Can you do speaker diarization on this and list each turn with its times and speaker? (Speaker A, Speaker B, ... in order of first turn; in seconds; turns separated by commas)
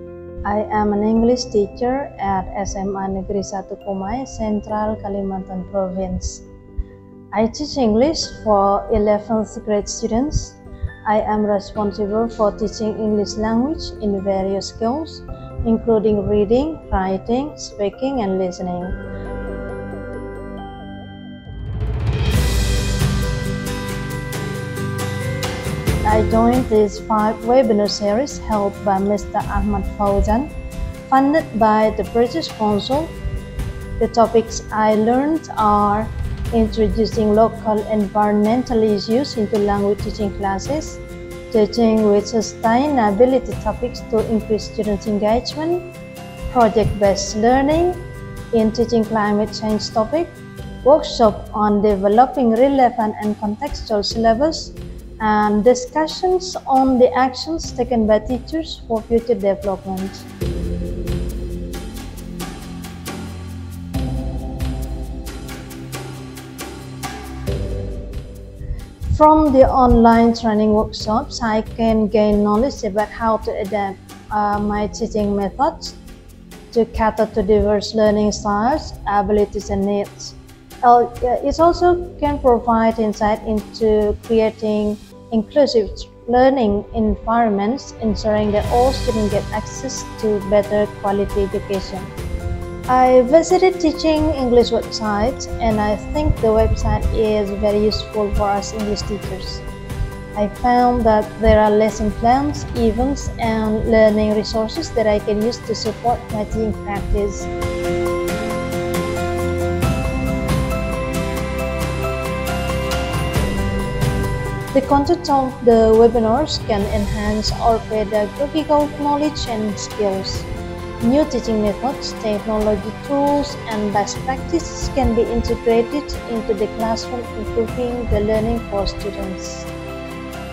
Speaker A: 0.4-6.5, Speaker A: 7.3-19.0, Speaker A: 26.1-30.5, Speaker A: 31.1-33.1, Speaker A: 34.0-45.9, Speaker A: 46.5-60.3, Speaker A: 69.1-76.0, Speaker A: 76.7-92.1, Speaker A: 92.9-99.7, Speaker A: 100.3-107.5, Speaker A: 114.7-120.5, Speaker A: 121.0-129.7